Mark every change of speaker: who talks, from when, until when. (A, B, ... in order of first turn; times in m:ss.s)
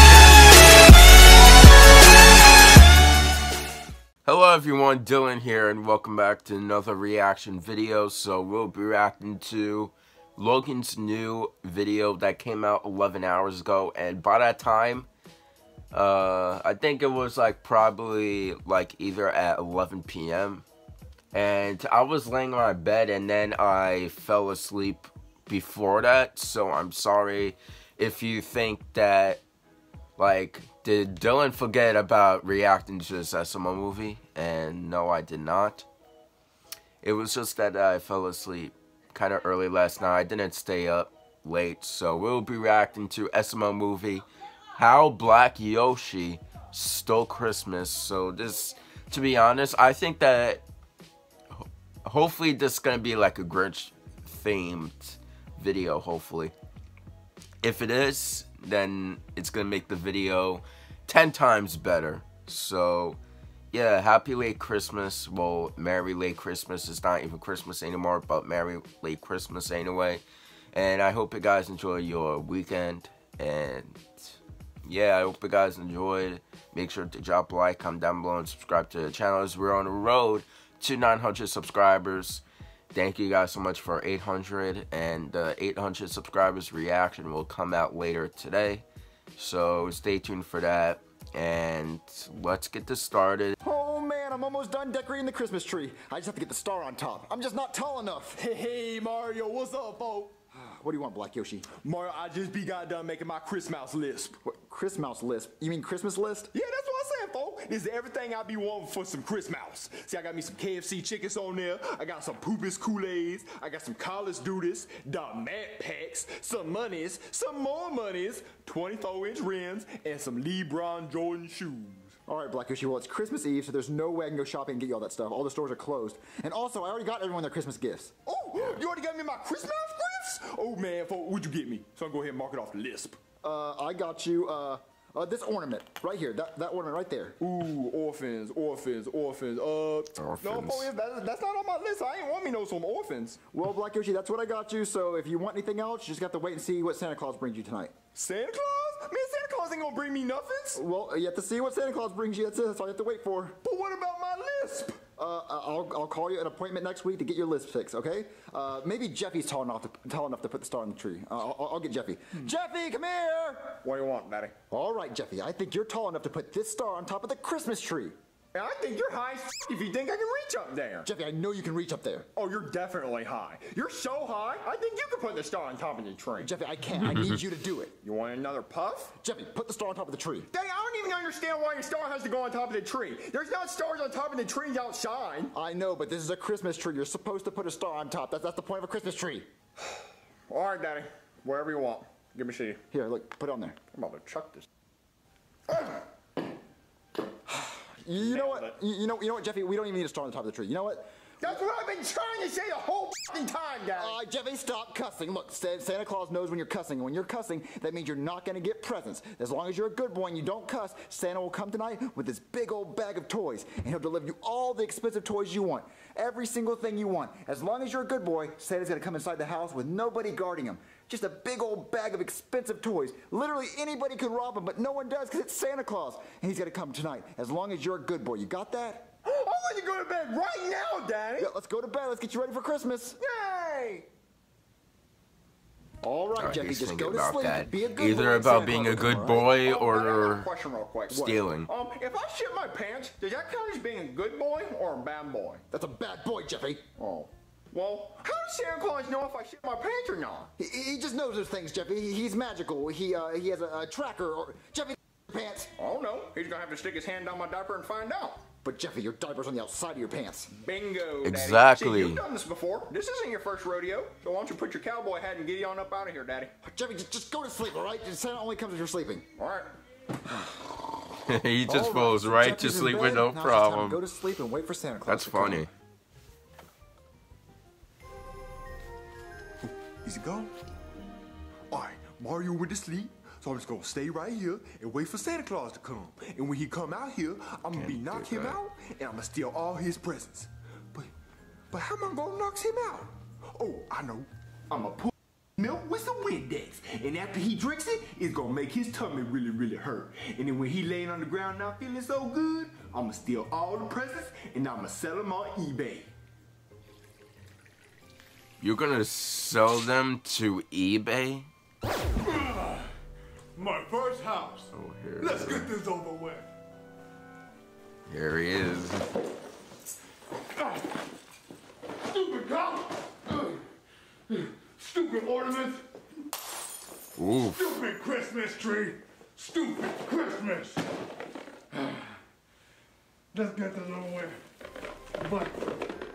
0:04.2-0:15.1 A
0:15.9-0:20.6 A
0:21.3-0:29.4 A
0:30.2-0:35.9 A
0:37.0-0:44.2 A
0:44.8-0:50.6 A
0:51.5-0:56.5 A
0:57.6-1:03.2 A
1:03.7-1:14.2 A
1:14.8-1:33.6 A
1:33.6-1:38.4 B
1:38.3-1:40.3 C
1:40.5-1:41.7 B
1:41.7-1:44.4 C
1:44.4-1:46.5 B
1:46.5-2:02.2 C
2:02.3-2:08.1 B
2:08.2-2:13.2 C
2:13.4-2:17.4 B
2:17.4-2:23.4 C
2:20.2-2:20.9 A
2:23.5-2:28.0 B
2:28.1-2:30.8 C
2:30.8-2:33.6 B
2:33.6-2:35.0 C
2:35.2-2:43.8 B
2:43.8-2:44.5 C
2:44.7-2:48.1 B
2:48.5-2:51.1 C
2:51.0-2:52.3 B
2:52.4-2:56.5 C
2:56.4-2:57.9 B
2:58.0-2:59.1 C
2:59.2-3:00.5 B
3:00.5-3:05.5 C
3:05.5-3:09.5 B
3:09.8-3:12.8 C
3:12.9-3:13.8 B
3:13.9-3:14.7 C
3:15.7-3:16.0 C
3:17.4-3:21.6 B
3:18.2-3:18.8 C
3:21.4-3:24.2 C
3:23.9-3:49.1 B
3:49.2-3:51.5 C
3:51.4-3:53.2 B
3:53.2-3:54.1 C
3:56.0-3:59.5 B
3:56.4-4:00.5 A
3:59.6-4:05.6 C
4:01.1-4:01.7 A
4:01.1-4:01.4 B
4:05.7-4:07.3 B
4:07.7-4:10.5 C
4:10.6-4:15.7 B
4:15.8-4:18.4 C
4:18.6-4:20.5 B
4:20.5-4:26.5 C
4:21.2-4:22.2 A
4:26.6-4:29.3 B
4:29.4-4:29.7 C
4:31.3-4:34.0 A
4:31.6-4:35.7 B
4:35.1-4:35.7 A
4:39.6-4:40.5 C
4:41.7-4:51.1 C
4:47.7-4:48.6 A
4:51.7-5:06.1 C
5:08.6-5:11.5 A
5:12.2-5:12.9 D
5:13.6-5:14.7 D
5:14.7-5:15.7 A
5:15.2-5:16.4 D
5:18.1-5:19.1 A
5:20.5-5:20.8 D
5:22.1-5:23.6 D
5:24.3-5:25.8 D
5:27.2-5:27.7 A
5:27.5-5:30.8 D
5:31.7-5:32.2 D
5:33.3-5:34.4 D
5:35.2-5:35.6 D